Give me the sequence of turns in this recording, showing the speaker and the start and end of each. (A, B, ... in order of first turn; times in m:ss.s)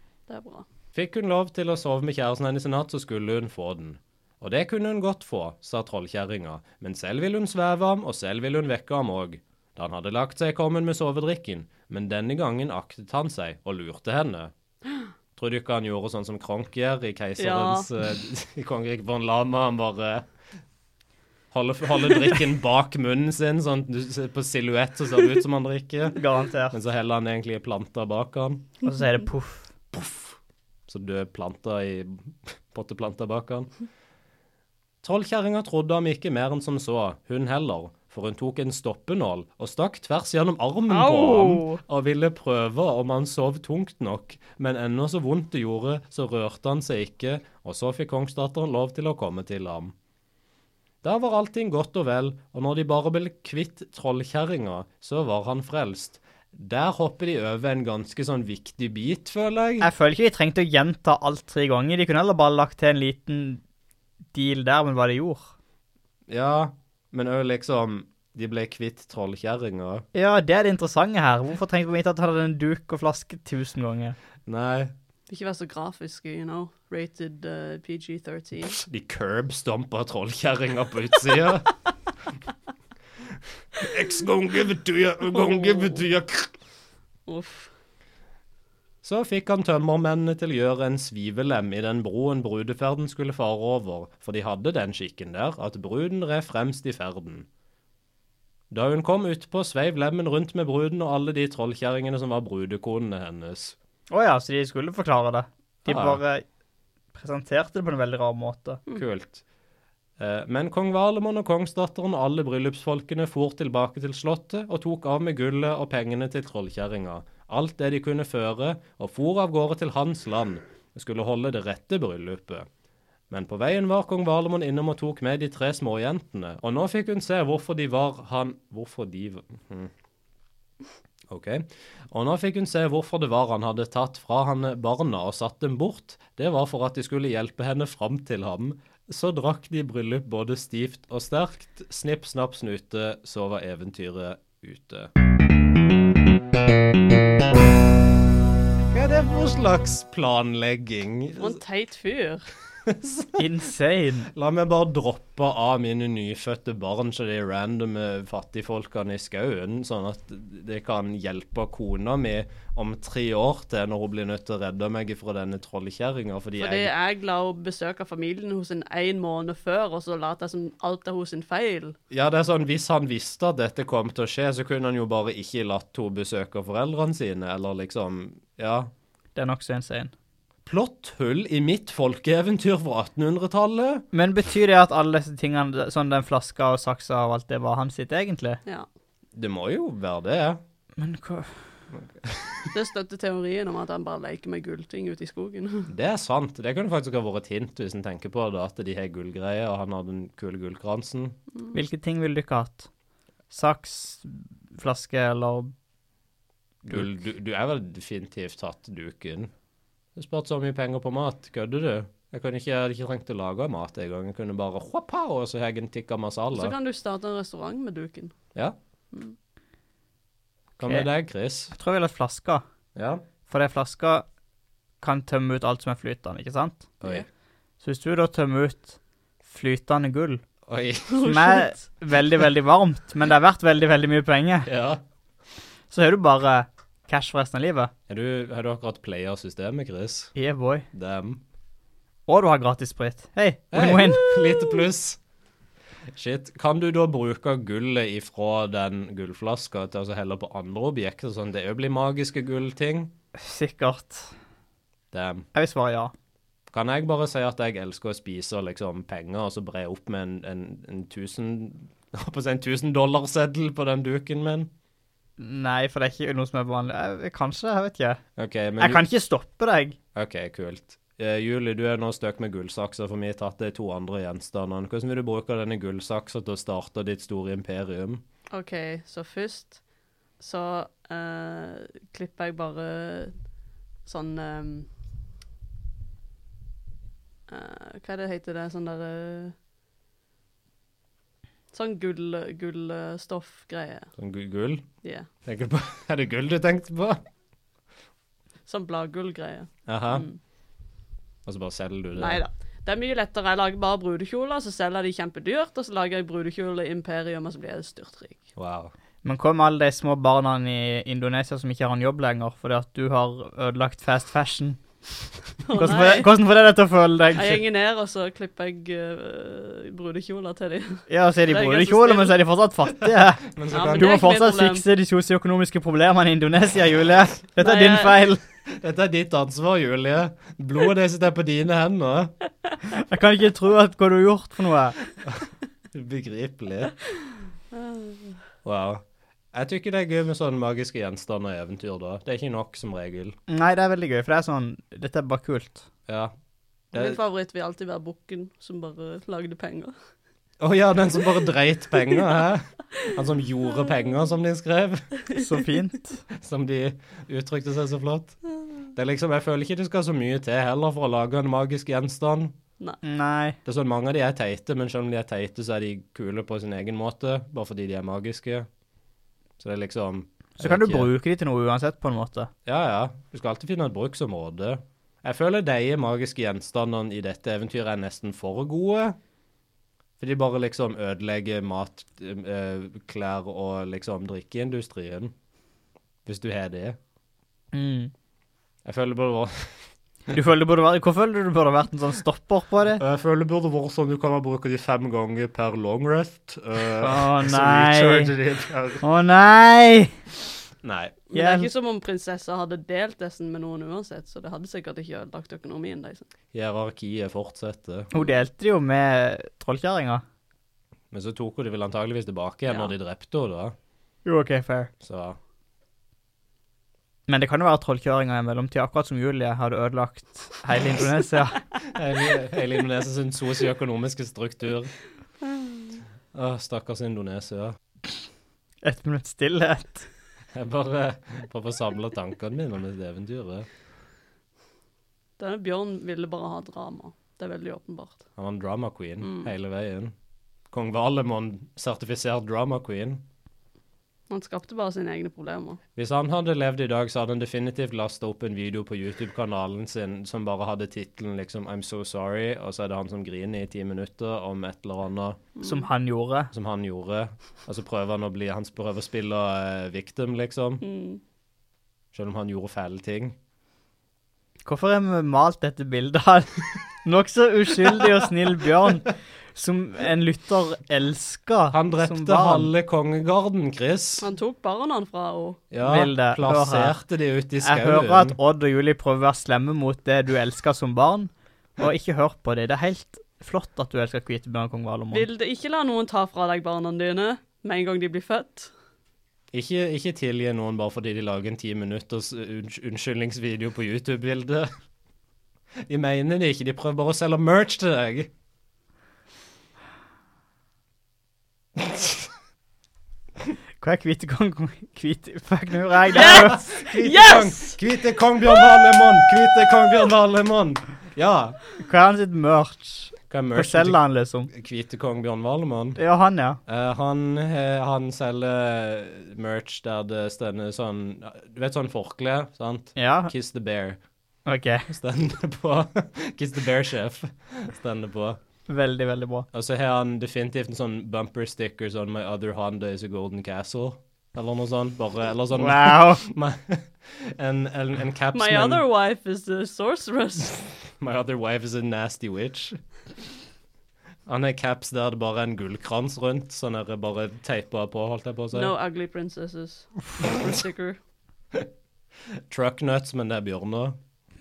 0:00.3-0:00.6 A
0:00.9-0:14.5 B
0:15.4-0:20.2 B
0:17.4-0:17.9 A
0:21.5-0:28.7 B
0:26.2-0:26.8 C
0:28.8-0:29.7 C
0:29.9-0:33.7 B
0:35.0-0:49.9 B
0:40.9-0:41.8 A
0:51.0-0:59.9 B
0:59.8-1:03.6 C
1:04.3-1:05.5 C
1:06.3-1:10.0 B
1:10.1-1:14.2 C
1:14.4-1:14.9 B
1:15.3-1:18.8 A
1:18.6-1:21.7 B
1:23.7-1:26.5 B
1:25.3-1:26.0 A
1:27.2-1:27.7 A
1:29.0-1:37.5 B
1:38.7-1:43.8 B
1:44.1-1:46.4 C
1:45.8-1:46.2 B
1:47.1-1:48.8 C
1:48.9-1:49.4 B
1:50.2-2:02.7 B
2:03.3-2:09.9 B
2:11.3-2:25.1 B
2:28.9-2:31.6 B
2:31.4-2:32.4 A
2:32.8-2:33.4 B
2:33.4-2:34.3 C
2:34.3-2:46.9 B
2:46.6-2:52.0 A
2:52.1-2:58.9 B
2:59.3-3:00.1 C
3:00.6-3:04.0 B
3:04.1-3:08.6 C
3:09.3-3:10.6 B
3:11.0-3:11.5 C
3:11.9-3:12.7 B
3:12.7-3:15.9 A
3:15.9-3:21.4 B
3:21.7-3:22.9 C
3:23.5-3:25.7 C
3:26.8-3:29.5 B
3:30.2-3:36.7 B
3:36.5-3:38.3 A
3:40.8-3:41.7 B
3:41.7-3:42.6 C
3:43.0-3:43.2 B
3:43.5-3:44.2 C
3:45.0-3:46.9 C
3:47.8-3:50.4 C
3:50.7-3:51.2 B
3:51.1-3:51.8 A
3:51.2-3:54.7 C
3:54.6-3:55.0 B
3:55.9-3:57.9 C
3:58.1-4:00.3 B
4:00.4-4:00.8 C
4:00.9-4:01.4 B
4:02.3-4:04.4 C
4:03.7-4:05.2 B
4:06.1-4:13.1 B
4:13.4-4:14.3 C
4:15.1-4:15.5 B
4:15.5-4:16.1 C
4:16.7-4:24.7 B
4:25.4-4:28.2 C
4:28.4-4:29.0 B
4:28.8-4:30.0 C
4:30.1-4:38.2 B
4:38.5-4:39.8 A
4:40.4-4:43.4 A
4:44.0-4:44.9 A
4:47.5-4:49.5 A
4:51.7-4:54.1 A
4:54.2-4:54.8 B
4:55.0-4:55.3 A
4:55.4-4:57.2 B
4:58.7-5:00.4 A
4:59.9-5:00.2 B
5:01.4-5:02.4 B
5:02.2-5:08.4 A
5:08.6-5:08.9 B
5:09.2-5:14.8 C
5:15.6-5:16.3 A
5:15.7-5:17.6 C
5:17.3-5:22.3 A
5:21.1-5:28.4 C
5:23.5-5:24.2 B
5:23.7-5:24.8 A
5:27.6-5:28.3 A
5:28.7-5:32.3 B
5:32.9-5:35.0 C
5:35.9-5:36.9 B
5:37.7-5:38.4 A
5:38.6-5:43.4 B
5:43.5-5:45.8 C
5:46.1-5:46.3 B
5:46.9-5:47.2 B
5:46.9-5:49.9 A
5:50.6-5:55.1 B
5:55.3-5:56.2 C
5:56.3-5:58.4 B
5:58.9-6:02.5 B
6:03.0-6:03.6 C
6:03.6-6:08.7 B
6:09.6-6:11.1 B
6:10.6-6:12.5 C
6:12.6-6:19.2 B
6:20.2-6:25.3 B
6:26.2-6:27.0 B
6:27.7-6:28.1 C
6:28.8-6:29.9 B
6:30.3-6:33.0 C
6:33.0-6:39.0 B
6:37.0-6:38.3 C
6:39.0-6:40.2 C
6:40.8-6:41.2 B
6:41.3-6:46.2 A
6:41.3-6:41.7 C
6:46.5-6:48.1 B
6:48.1-6:50.2 C
6:51.1-6:53.7 B
6:52.7-6:52.9 A
6:54.2-6:54.9 C
6:55.0-6:55.4 B
6:57.3-7:01.6 C
7:01.9-7:04.9 B
7:06.3-7:07.8 B
7:08.8-7:10.1 C
7:10.5-7:13.7 B
7:15.4-7:18.2 A
7:18.4-7:20.1 B
7:19.2-7:19.5 A
7:20.7-7:23.2 B
7:24.3-7:25.8 A
7:26.0-7:35.4 B
7:35.6-7:35.8 A
7:35.6-7:36.5 C
7:36.5-7:40.8 B
7:40.8-7:41.2 A
7:42.1-7:43.4 B
7:44.6-7:52.7 C
7:51.7-7:54.3 B
7:54.2-7:55.6 A
7:55.7-7:58.4 B
7:55.8-7:57.0 C
7:57.6-8:05.3 C
8:05.1-8:08.7 A
8:09.5-8:14.7 B
8:15.9-8:18.3 B
8:21.8-8:22.3 B
8:23.8-8:26.6 C
8:26.1-8:27.8 A
8:26.2-8:31.6 B
8:28.4-8:29.3 A
8:31.8-8:34.5 C
8:33.3-8:34.0 B
8:34.5-8:36.0 B
8:36.0-8:36.6 C
8:36.6-8:44.0 B
8:43.0-8:43.3 C
8:44.4-8:44.9 C
8:44.9-8:48.4 B
8:48.7-8:49.5 C
8:49.5-8:58.8 B
8:55.5-8:56.2 C
8:58.3-9:00.7 A
9:01.0-9:02.8 B
9:04.3-9:08.7 B
9:08.5-9:11.0 A
9:12.5-9:14.0 B